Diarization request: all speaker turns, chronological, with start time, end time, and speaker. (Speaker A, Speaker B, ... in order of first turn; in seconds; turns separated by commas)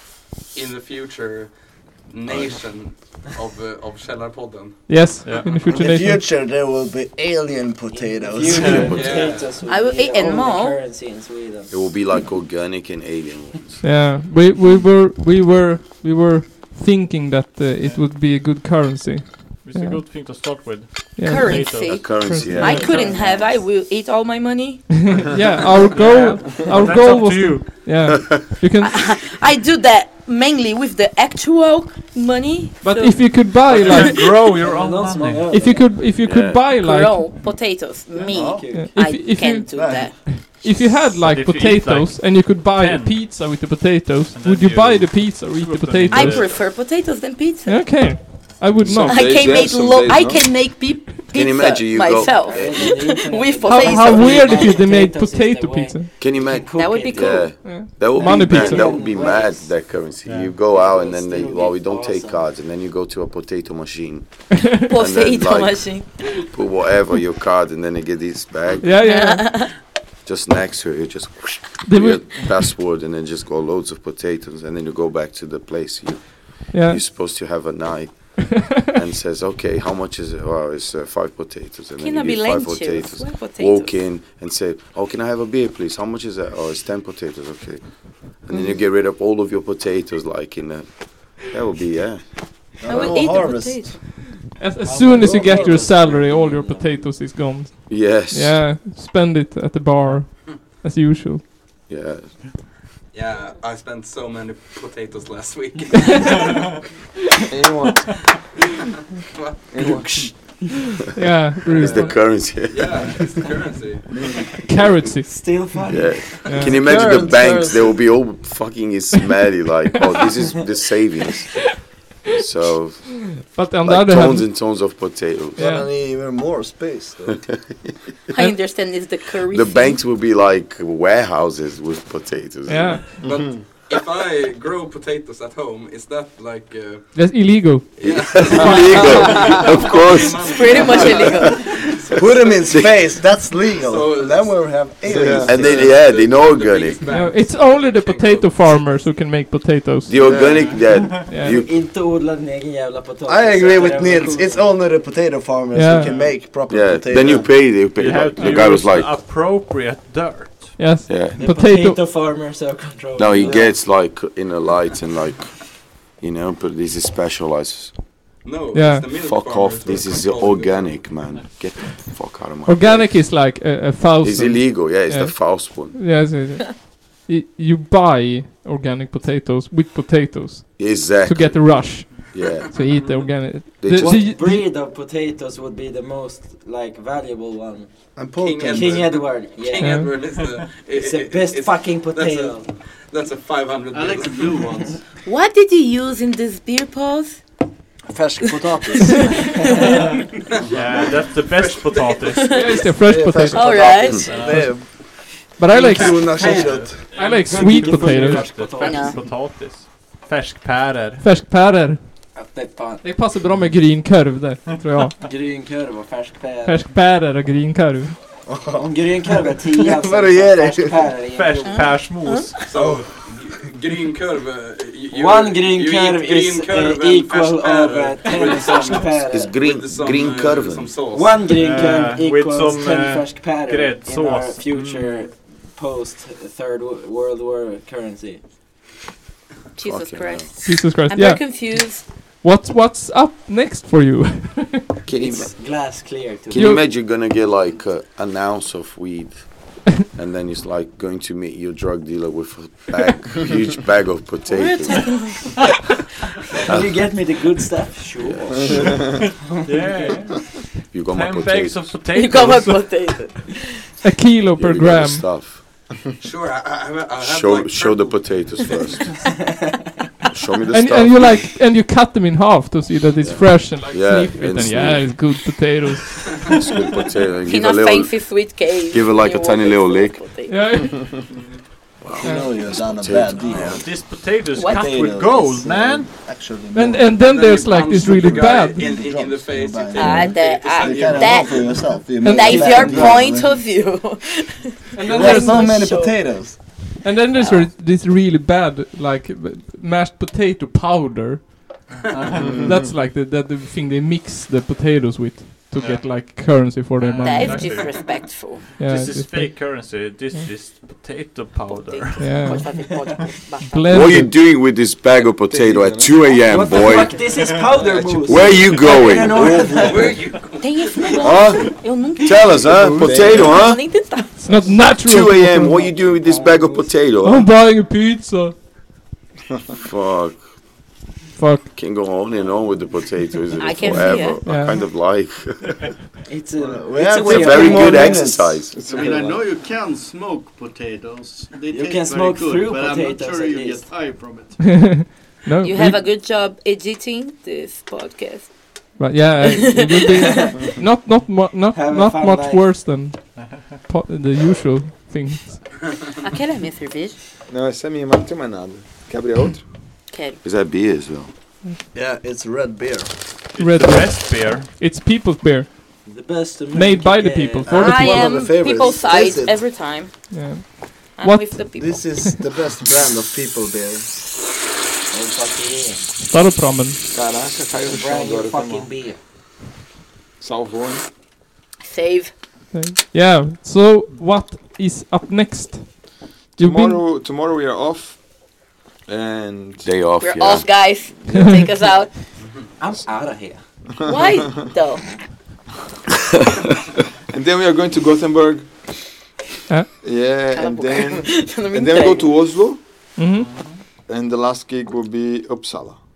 Speaker A: 0.5-5.0, Speaker B: 2.2-2.6, Speaker C: 4.9-6.3, Speaker D: 5.2-5.5, Speaker E: 5.7-9.3, Speaker F: 7.9-11.9, Speaker D: 8.5-8.9, Speaker A: 8.9-9.6, Speaker G: 9.7-10.8, Speaker B: 11.7-13.8, Speaker C: 13.8-20.2, Speaker D: 19.6-23.1, Speaker C: 21.2-23.2, Speaker G: 21.2-25.2, Speaker B: 21.9-22.9, Speaker F: 22.9-23.6, Speaker C: 24.9-29.1, Speaker D: 25.9-28.4, Speaker G: 28.8-34.0, Speaker C: 32.8-34.5, Speaker D: 33.7-35.5, Speaker F: 33.8-36.0, Speaker C: 35.5-37.5, Speaker B: 36.2-36.6, Speaker G: 36.8-40.1, Speaker F: 38.2-38.9, Speaker E: 38.3-38.7, Speaker C: 38.7-46.6, Speaker E: 39.7-40.1, Speaker D: 41.1-43.2, Speaker D: 44.3-46.6, Speaker G: 46.1-48.2, Speaker C: 47.7-49.6, Speaker H: 48.8-50.5, Speaker G: 49.1-54.8, Speaker B: 51.3-53.1, Speaker F: 52.2-59.7, Speaker C: 53.6-56.2, Speaker B: 56.2-69.0, Speaker G: 56.7-57.8, Speaker C: 57.6-59.0, Speaker D: 60.2-60.6, Speaker F: 60.7-62.4, Speaker G: 64.9-66.1, Speaker C: 68.8-69.7, Speaker G: 69.0-69.8, Speaker B: 70.2-92.2, Speaker C: 71.8-72.7, Speaker C: 76.7-77.0, Speaker G: 82.0-84.0, Speaker E: 92.8-94.0, Speaker B: 92.8-93.2, Speaker G: 92.8-94.0, Speaker C: 94.5-101.4, Speaker F: 94.8-97.1, Speaker E: 94.9-96.0, Speaker B: 97.9-98.8, Speaker B: 101.9-102.5, Speaker A: 103.1-106.5, Speaker C: 105.9-106.4, Speaker H: 107.5-108.3, Speaker H: 109.7-110.5, Speaker F: 109.8-110.6, Speaker C: 110.9-112.3, Speaker B: 111.7-113.4, Speaker A: 112.1-114.4, Speaker C: 114.6-115.7, Speaker F: 115.3-116.3, Speaker B: 115.9-121.8, Speaker C: 116.4-116.8, Speaker E: 116.6-118.0, Speaker B: 122.3-125.8, Speaker C: 123.3-124.8, Speaker C: 125.6-125.9, Speaker E: 125.6-127.4, Speaker B: 127.5-127.8, Speaker G: 128.3-130.0, Speaker B: 129.5-133.2, Speaker C: 132.7-133.1, Speaker A: 133.2-137.2, Speaker H: 133.2-133.6, Speaker C: 137.1-139.5, Speaker A: 138.0-143.1, Speaker B: 138.0-141.7, Speaker G: 140.5-141.7, Speaker E: 142.2-146.0, Speaker B: 142.6-143.0, Speaker A: 143.8-144.7, Speaker H: 145.1-145.9, Speaker B: 145.4-147.1, Speaker A: 145.5-149.1, Speaker C: 147.1-150.5, Speaker B: 150.1-151.7, Speaker D: 150.7-151.1, Speaker C: 151.2-151.7, Speaker F: 151.5-154.9, Speaker E: 153.3-157.5, Speaker C: 155.7-156.2, Speaker B: 156.5-159.2, Speaker D: 157.7-160.8, Speaker C: 158.4-158.8, Speaker C: 160.8-162.0, Speaker B: 161.1-161.4, Speaker F: 161.3-163.7, Speaker B: 163.2-168.0, Speaker A: 168.4-171.2, Speaker C: 168.7-169.1, Speaker B: 169.1-173.5, Speaker C: 172.7-184.7, Speaker B: 174.2-176.2, Speaker B: 180.8-182.7, Speaker B: 183.8-184.3, Speaker F: 184.0-187.9, Speaker E: 188.2-189.3, Speaker A: 188.4-194.7, Speaker F: 188.7-190.0, Speaker C: 189.8-190.1, Speaker D: 190.3-190.7, Speaker F: 190.9-192.7, Speaker I: 193.9-195.0, Speaker G: 195.2-197.4, Speaker E: 198.1-199.4, Speaker G: 199.0-200.0, Speaker F: 199.6-200.0, Speaker D: 200.7-202.9, Speaker G: 202.4-202.9, Speaker C: 202.5-204.7, Speaker E: 203.0-205.0, Speaker G: 203.5-204.4, Speaker D: 204.1-204.8, Speaker C: 205.6-208.5, Speaker E: 205.7-207.1, Speaker A: 205.9-206.9, Speaker D: 206.4-211.2, Speaker F: 207.2-209.3, Speaker G: 208.8-209.2, Speaker C: 211.2-212.2, Speaker F: 212.3-213.2, Speaker C: 213.0-215.2, Speaker F: 215.2-216.9, Speaker C: 216.7-218.2, Speaker E: 218.5-218.9, Speaker F: 218.8-222.0, Speaker E: 219.9-221.1, Speaker D: 221.3-222.6, Speaker G: 221.7-222.5, Speaker A: 222.7-231.6, Speaker E: 222.7-223.1, Speaker F: 225.1-229.6, Speaker B: 229.3-231.0, Speaker F: 231.1-238.4, Speaker D: 231.5-235.3, Speaker G: 239.8-242.0, Speaker B: 239.8-240.6, Speaker C: 240.6-245.1, Speaker B: 245.1-245.8, Speaker F: 245.1-246.8, Speaker B: 246.5-255.7, Speaker C: 246.5-246.9, Speaker G: 254.5-255.7, Speaker F: 256.7-260.2, Speaker B: 256.7-257.1, Speaker B: 258.2-258.8, Speaker H: 258.5-259.3, Speaker D: 259.5-263.1, Speaker B: 260.9-262.1, Speaker G: 262.1-263.7, Speaker C: 264.0-265.4, Speaker B: 264.6-265.6, Speaker A: 266.2-269.0, Speaker B: 267.2-269.3, Speaker B: 270.3-271.5, Speaker C: 270.7-276.3, Speaker B: 273.2-275.5, Speaker B: 276.2-280.2, Speaker G: 277.5-280.8, Speaker C: 280.5-281.1, Speaker B: 282.0-284.0, Speaker E: 282.2-293.6, Speaker C: 282.2-282.5, Speaker D: 283.4-286.1, Speaker G: 284.6-284.9, Speaker C: 286.7-288.9, Speaker A: 287.1-292.0, Speaker G: 289.9-296.4, Speaker C: 292.2-293.1, Speaker C: 295.0-295.9, Speaker E: 295.0-296.7, Speaker A: 295.1-295.4, Speaker C: 297.0-301.8, Speaker D: 302.0-302.8, Speaker H: 302.4-302.9, Speaker C: 302.5-307.9, Speaker D: 305.8-306.1, Speaker D: 307.0-308.2, Speaker G: 307.2-308.6, Speaker A: 307.7-308.1, Speaker C: 308.8-309.8, Speaker D: 308.8-312.6, Speaker G: 311.7-314.1, Speaker C: 312.2-312.8, Speaker C: 313.7-314.3, Speaker B: 313.9-317.3, Speaker H: 315.5-320.1, Speaker F: 316.4-320.4, Speaker B: 318.2-319.7, Speaker A: 319.8-320.8, Speaker G: 320.6-324.3, Speaker B: 321.2-323.9, Speaker H: 322.6-323.7, Speaker C: 324.4-325.9, Speaker B: 324.8-327.5, Speaker F: 325.8-326.9, Speaker C: 327.2-328.6, Speaker B: 329.8-330.4, Speaker C: 331.4-331.7, Speaker B: 331.7-335.9, Speaker G: 333.6-334.4, Speaker C: 334.4-334.8, Speaker F: 336.3-338.6, Speaker E: 336.6-339.1, Speaker B: 337.2-338.9, Speaker H: 338.8-339.4, Speaker I: 338.8-344.6, Speaker F: 341.7-343.9, Speaker C: 344.6-346.1, Speaker G: 345.6-348.6, Speaker C: 349.0-355.7, Speaker G: 349.4-350.7, Speaker F: 351.7-352.8, Speaker D: 353.4-353.8, Speaker G: 356.2-357.2, Speaker H: 357.5-359.7, Speaker G: 360.1-360.4, Speaker B: 360.4-361.3, Speaker E: 361.9-363.1, Speaker D: 363.6-364.7, Speaker C: 363.6-365.7, Speaker F: 366.1-367.8, Speaker C: 366.7-368.6, Speaker E: 367.7-369.6, Speaker G: 367.7-370.1, Speaker C: 370.3-372.4, Speaker G: 371.2-372.0, Speaker E: 371.8-374.1, Speaker F: 375.1-376.1, Speaker C: 376.2-377.0, Speaker H: 377.1-378.9, Speaker F: 377.8-379.2, Speaker H: 380.4-381.1, Speaker G: 381.8-382.3, Speaker C: 382.7-387.1, Speaker H: 386.6-389.9, Speaker B: 389.8-390.7, Speaker G: 390.2-392.1, Speaker C: 391.4-391.7, Speaker F: 392.8-393.7, Speaker G: 394.0-395.1, Speaker H: 397.3-398.9, Speaker H: 400.0-402.8, Speaker G: 400.5-402.3, Speaker C: 403.2-403.8, Speaker D: 403.4-403.8, Speaker H: 404.1-406.0